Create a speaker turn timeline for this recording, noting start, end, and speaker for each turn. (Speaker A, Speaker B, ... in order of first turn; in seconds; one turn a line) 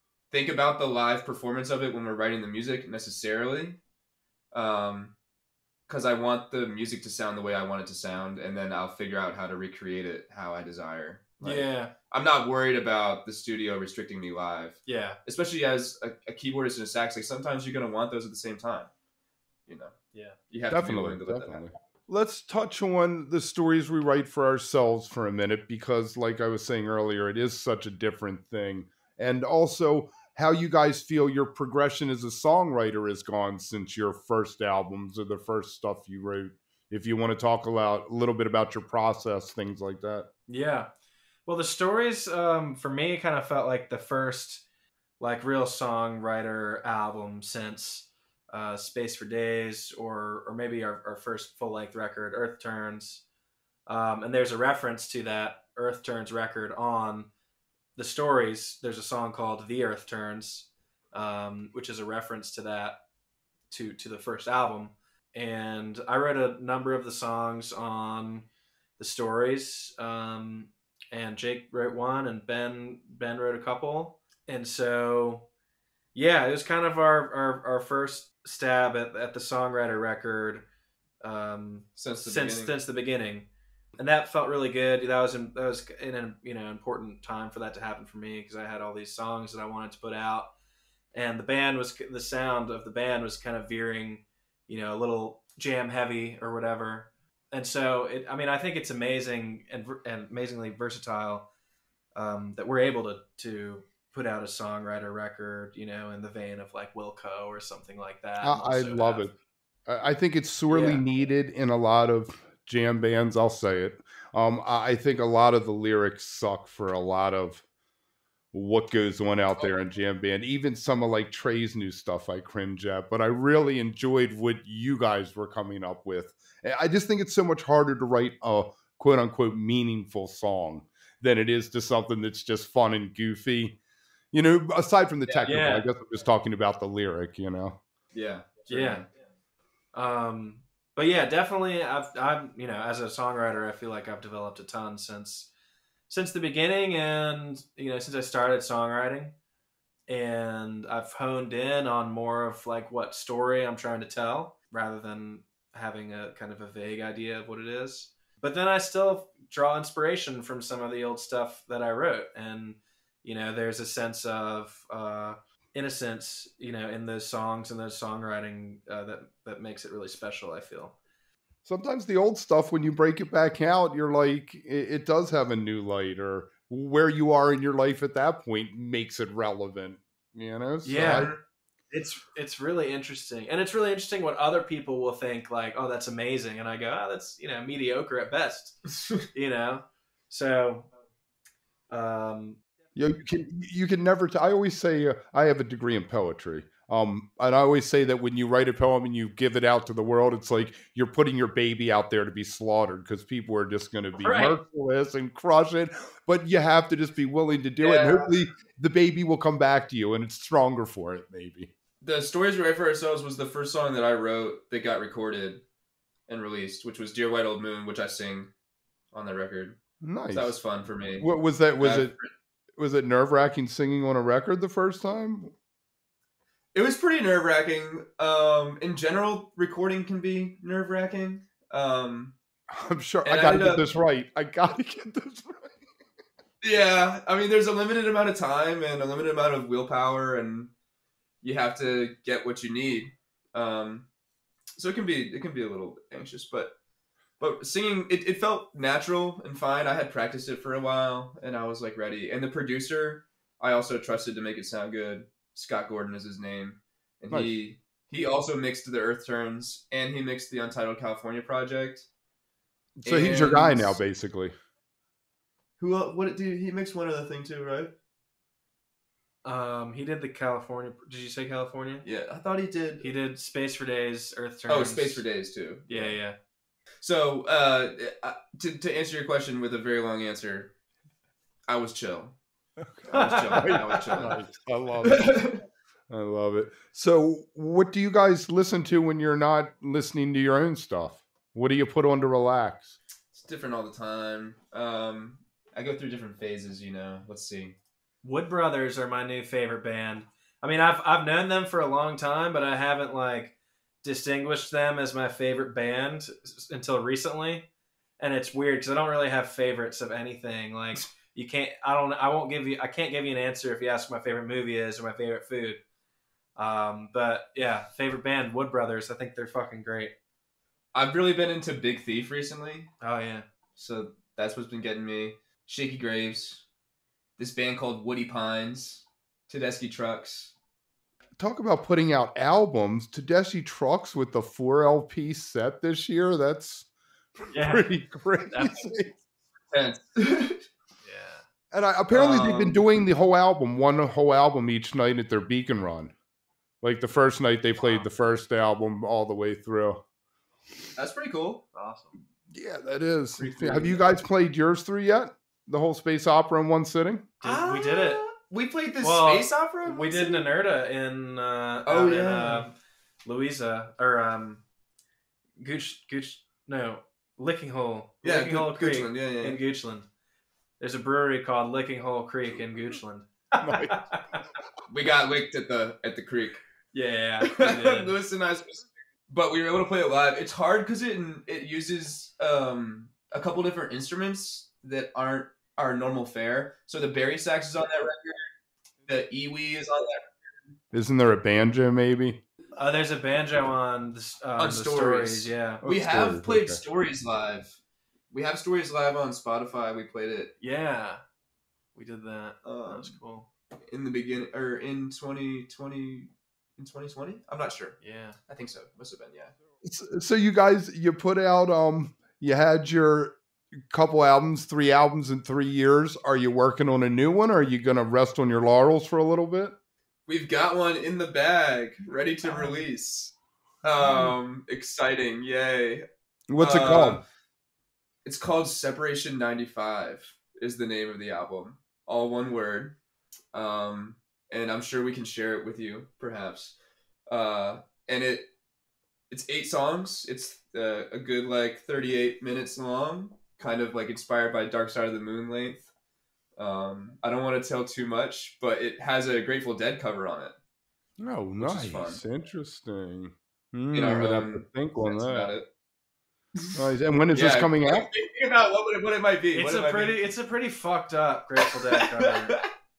Speaker A: 0.3-3.8
Speaker A: 4.5-5.1
Speaker A: 5.9-18.9
Speaker B: 11.4-11.9
Speaker B: 14.8-15.2
Speaker A: 19.7-19.9
Speaker A: 20.5-21.6
Speaker C: 20.7-40.2
Speaker B: 40.5-40.9
Speaker B: 41.5-44.6
Speaker B: 45.2-53.2
Speaker B: 53.9-57.3
Speaker B: 58.0-63.0
Speaker B: 63.7-68.4
Speaker B: 69.0-75.4
Speaker B: 76.1-80.6
Speaker B: 81.2-83.5
Speaker A: 82.0-82.7
Speaker B: 84.0-90.5
Speaker B: 91.1-101.4
Speaker B: 102.1-109.3
Speaker C: 108.4-109.3
Speaker C: 109.9-117.6
Speaker B: 110.7-111.0
Speaker C: 118.5-133.7
Speaker C: 134.3-137.8
Speaker A: 135.2-135.5
Speaker B: 135.4-135.8
Speaker A: 138.1-139.0
Speaker B: 138.7-139.0
Speaker B: 139.9-145.5
Speaker B: 146.1-149.3
Speaker B: 150.1-170.9
Speaker C: 171.6-181.3
Speaker B: 180.8-181.3
Speaker A: 180.9-181.4
Speaker B: 181.9-188.8
Speaker B: 189.3-190.9
Speaker B: 191.9-192.6
Speaker C: 192.9-211.7
Speaker B: 204.1-204.6
Speaker A: 207.8-208.3
Speaker A: 212.0-215.6
Speaker A: 216.3-218.5
Speaker A: 219.1-219.8
Speaker C: 220.0-220.6
Speaker A: 220.3-222.3
Speaker C: 221.2-222.1
Speaker C: 222.8-225.5
Speaker A: 226.7-232.3
Speaker C: 232.7-235.8
Speaker A: 233.2-233.8
Speaker A: 236.6-240.7
Speaker A: 241.4-244.0
Speaker A: 244.8-246.7
Speaker A: 247.4-262.1
Speaker C: 257.3-257.5
Speaker C: 263.0-264.5
Speaker A: 263.0-264.0
Speaker A: 265.8-267.9
Speaker B: 269.4-272.0
Speaker A: 272.0-273.0
Speaker B: 273.0-275.2
Speaker A: 274.7-276.2
Speaker B: 275.9-276.4
Speaker A: 277.0-280.7
Speaker A: 281.7-282.4
Speaker C: 282.8-285.4
Speaker A: 283.1-284.4
Speaker B: 283.1-283.8
Speaker A: 285.0-285.6
Speaker C: 286.1-292.9
Speaker A: 293.3-297.7
Speaker B: 298.2-303.5
Speaker B: 304.0-307.6
Speaker B: 308.2-315.8
Speaker B: 316.6-320.1
Speaker A: 320.9-322.9
Speaker B: 323.0-323.4
Speaker A: 323.8-326.6
Speaker A: 327.4-330.5
Speaker C: 331.4-336.9
Speaker C: 337.4-339.1
Speaker B: 337.5-337.9
Speaker B: 338.5-338.9
Speaker A: 339.7-340.6
Speaker B: 341.0-341.4
Speaker C: 341.7-346.1
Speaker A: 342.1-342.8
Speaker C: 346.8-350.0
Speaker B: 347.8-348.1
Speaker A: 350.9-351.6
Speaker B: 351.7-352.1
Speaker C: 352.5-357.3
Speaker A: 353.4-354.0
Speaker B: 357.4-358.2
Speaker A: 357.4-360.4
Speaker B: 359.0-362.7
Speaker A: 361.9-362.6
Speaker B: 363.2-364.6
Speaker B: 365.6-370.0
Speaker A: 368.2-369.6
Speaker B: 370.8-374.4
Speaker C: 373.6-374.0
Speaker A: 374.9-376.6
Speaker B: 376.9-378.1
Speaker A: 377.4-388.5
Speaker A: 389.1-390.3
Speaker C: 390.9-392.4
Speaker B: 392.8-395.8
Speaker A: 394.6-397.8
Speaker C: 395.8-396.8
Speaker A: 398.3-400.5
Speaker B: 400.6-401.2
Speaker B: 401.9-403.5
Speaker A: 402.6-403.1
Speaker A: 403.9-408.0
Speaker B: 408.0-408.4
Speaker A: 408.5-409.5
Speaker C: 409.8-419.7
Speaker A: 420.3-423.3
Speaker A: 423.8-426.0
Speaker C: 426.5-427.2
Speaker A: 426.6-427.2
Speaker A: 428.2-432.9
Speaker A: 433.5-436.7
Speaker A: 437.3-438.5
Speaker A: 439.3-445.9
Speaker A: 446.6-450.5
Speaker C: 451.2-455.5
Speaker A: 451.6-452.2
Speaker A: 453.9-455.6
Speaker A: 456.6-456.8
Speaker C: 456.7-458.1
Speaker A: 457.3-460.2
Speaker B: 459.5-462.6
Speaker A: 461.9-462.7